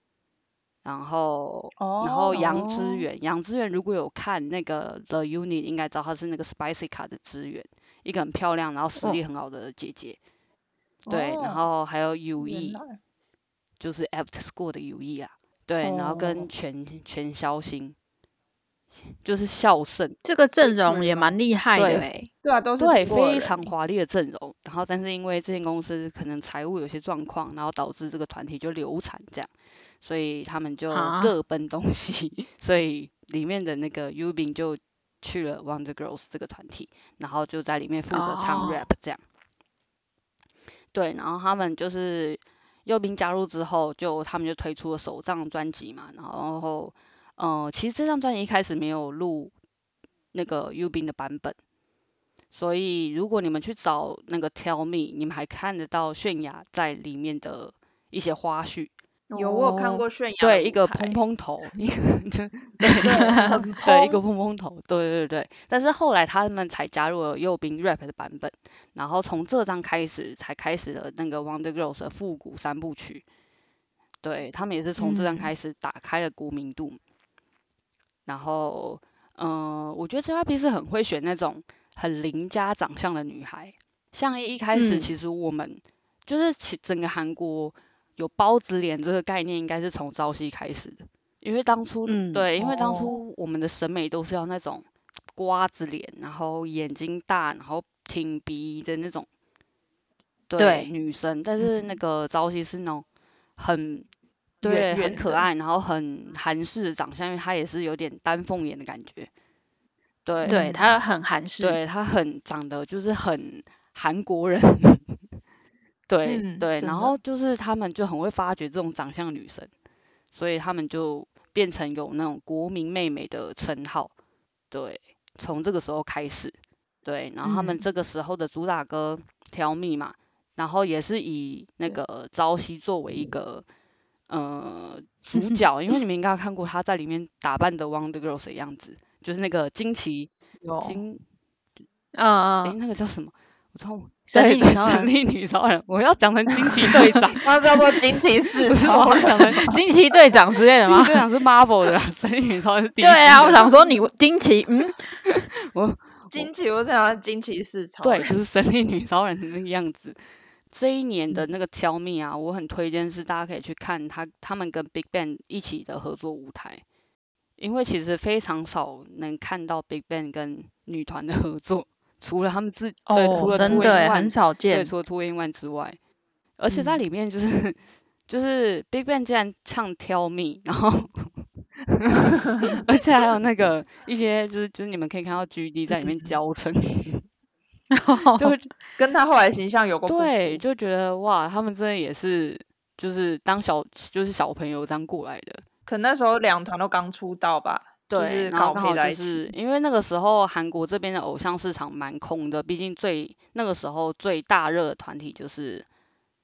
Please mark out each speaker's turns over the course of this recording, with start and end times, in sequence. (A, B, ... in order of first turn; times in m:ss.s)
0:00.8-0:10.2 A
0:01.8-0:02.7 B
0:02.4-0:03.0 C
0:11.1-0:11.6 B
0:11.1-0:12.8 A
0:12.4-0:13.0 B
0:13.8-0:18.0 A
0:15.8-0:16.5 C
0:19.1-0:20.2 A
0:20.2-0:22.3 C
0:20.6-0:21.4 B
0:21.8-0:22.1 A
0:22.4-0:23.7 B
0:22.8-0:29.5 A
0:30.0-0:39.2 A
0:30.9-0:31.3 C
0:38.1-0:38.8 C
0:40.9-0:49.5 A
0:50.3-0:51.6 A
0:52.5-0:58.9 A
0:59.3-1:00.0 C
0:59.3-1:01.2 B
1:00.4-1:13.2 A
1:03.0-1:03.6 C
1:03.0-1:04.2 B
1:14.2-1:17.0 A
1:15.0-1:15.5 C
1:18.3-1:39.3 A
1:24.7-1:25.1 C
1:32.1-1:32.5 C
1:32.6-1:33.1 B
1:40.5-1:43.0 A
1:40.6-1:40.9 C
1:43.6-1:44.1 A
1:44.6-1:45.5 B
1:44.6-1:49.3 A
1:50.3-1:50.6 A
1:50.4-1:50.9 B
1:50.5-1:51.8 C
1:51.6-1:55.2 A
1:56.1-1:59.7 A
1:56.3-1:57.2 B
2:00.3-2:04.1 A
2:04.7-2:13.6 A
2:07.4-2:07.8 B
2:14.3-2:20.3 A
2:15.3-2:15.9 C
2:20.6-2:21.0 B
2:20.8-2:21.2 A
2:22.2-2:22.8 C
2:22.6-2:27.6 A
2:24.3-2:25.1 C
2:27.4-2:29.8 B
2:28.7-2:29.7 A
2:29.6-2:31.2 C
2:30.8-2:33.9 A
2:33.0-2:35.0 C
2:35.3-2:36.5 A
2:36.3-2:38.4 B
2:38.0-2:40.2 A
2:40.7-2:46.8 A
2:47.6-2:56.0 A
2:53.1-2:54.9 C
2:53.2-2:54.1 B
2:56.6-2:57.8 A
2:56.7-2:57.0 B
2:58.3-3:01.3 A
3:01.9-3:07.2 A
3:07.9-3:08.6 C
3:08.4-3:08.7 A
3:09.0-3:10.6 B
3:10.1-3:15.6 A
3:15.9-3:19.5 B
3:18.1-3:25.9 A